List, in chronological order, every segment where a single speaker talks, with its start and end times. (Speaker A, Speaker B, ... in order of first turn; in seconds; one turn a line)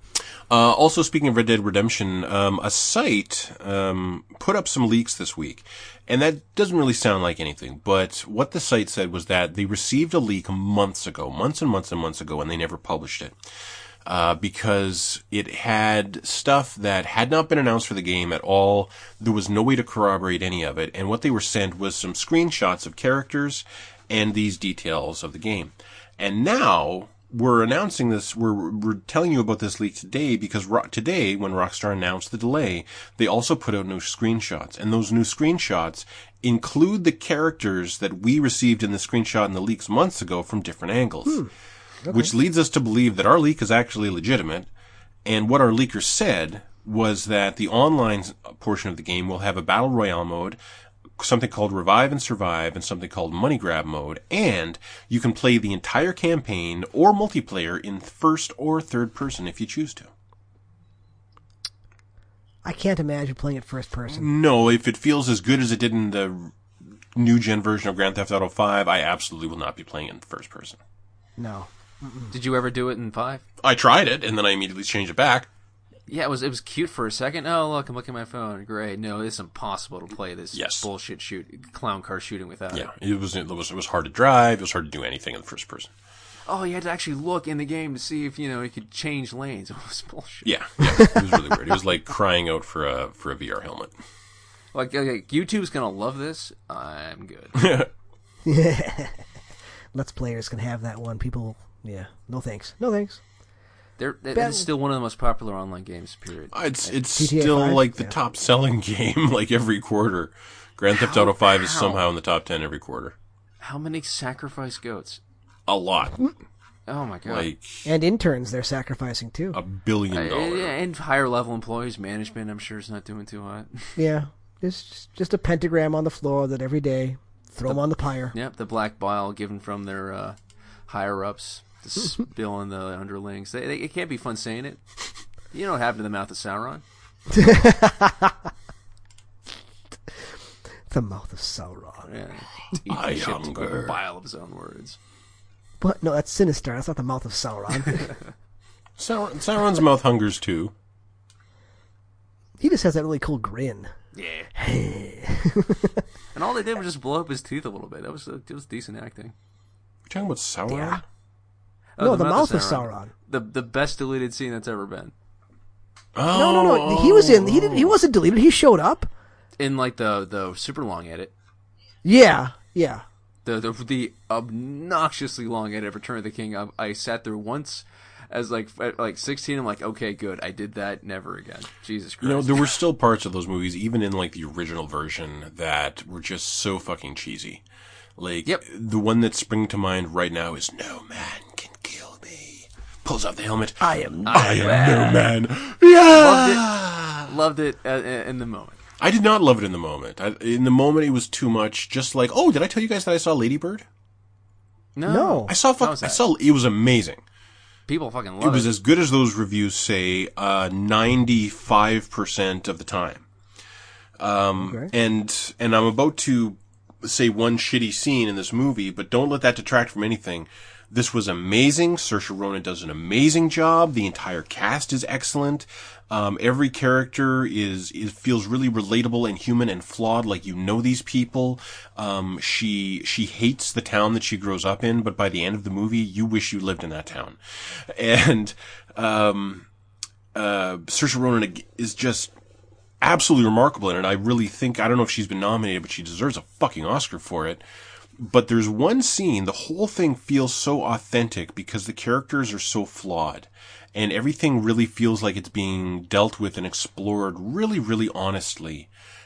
Speaker A: 0.5-13.3
Speaker A: 14.0-41.5
Speaker B: 42.0-42.3
Speaker A: 42.1-44.7
Speaker A: 45.2-50.6
Speaker A: 51.2-60.1
Speaker B: 62.6-64.3
Speaker A: 64.1-66.5
Speaker A: 67.1-70.8
Speaker B: 71.4-72.3
Speaker C: 72.3-73.4
Speaker A: 73.6-75.5
Speaker C: 76.1-82.9
Speaker A: 80.5-80.8
Speaker A: 82.7-85.9
Speaker C: 86.5-90.5
Speaker A: 90.4-93.9
Speaker C: 94.7-97.6
Speaker A: 97.5-97.9
Speaker B: 98.4-99.2
Speaker B: 99.9-103.2
Speaker C: 104.0-106.6
Speaker B: 104.3-104.7
Speaker A: 106.5-113.1
Speaker B: 107.2-108.1
Speaker C: 110.9-112.0
Speaker C: 113.6-115.2
Speaker A: 115.7-116.2
Speaker C: 116.9-117.5
Speaker A: 117.3-117.9
Speaker B: 117.8-119.6
Speaker A: 119.5-120.8
Speaker C: 120.1-124.0
Speaker B: 124.0-128.3
Speaker C: 127.7-134.8
Speaker C: 135.5-136.8
Speaker B: 137.3-138.3
Speaker B: 140.9-142.1
Speaker C: 142.0-145.0
Speaker A: 142.9-144.0
Speaker B: 145.8-148.1
Speaker A: 149.0-150.7
Speaker B: 152.6-153.9
Speaker C: 154.1-154.5
Speaker B: 154.6-156.0
Speaker C: 156.3-159.3
Speaker A: 160.1-161.0
Speaker B: 160.7-161.0
Speaker C: 162.0-165.1
Speaker B: 162.0-163.1
Speaker A: 166.1-168.0
Speaker B: 166.3-169.1
Speaker C: 169.6-171.3
Speaker B: 172.0-173.0
Speaker C: 173.4-182.6
Speaker A: 182.2-187.6
Speaker A: 188.2-197.3
Speaker B: 193.8-194.4
Speaker C: 194.2-195.2
Speaker C: 196.1-196.7
Speaker C: 197.2-198.8
Speaker A: 199.0-203.8
Speaker C: 204.9-206.2
Speaker B: 205.1-205.5
Speaker A: 205.5-207.2
Speaker C: 207.9-208.7
Speaker A: 208.4-213.2
Speaker A: 214.2-239.7
Speaker B: 214.6-214.9
Speaker A: 240.3-242.3
Speaker A: 243.0-247.6
Speaker A: 248.2-258.9